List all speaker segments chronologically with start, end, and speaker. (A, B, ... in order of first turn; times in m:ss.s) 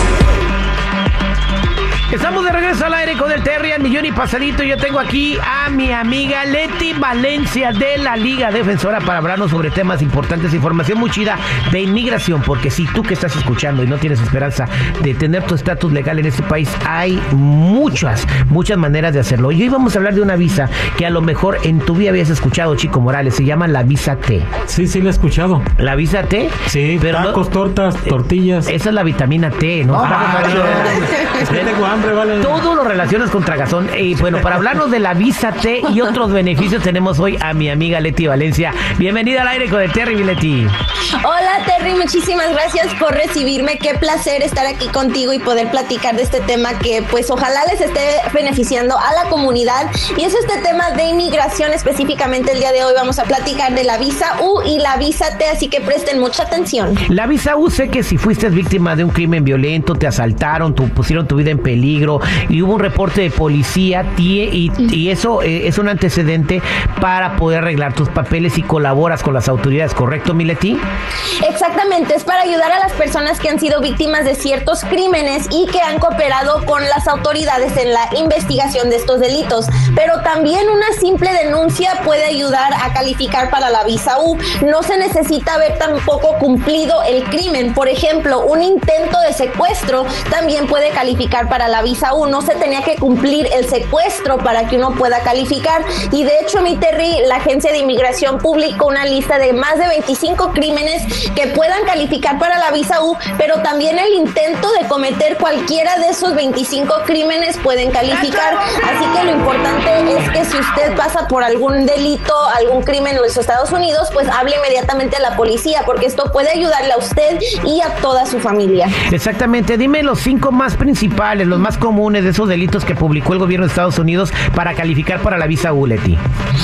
0:02.1-0:24.5 A
0:24.7-0:25.7 B
0:25.8-0:27.4 A
0:26.7-0:28.7 B
0:28.6-0:31.8 A
0:29.9-0:32.6 B
0:32.4-0:40.7 A
0:41.2-0:57.0 C
0:57.1-1:10.8 A
1:11.4-1:59.0 C
1:59.0-2:06.2 A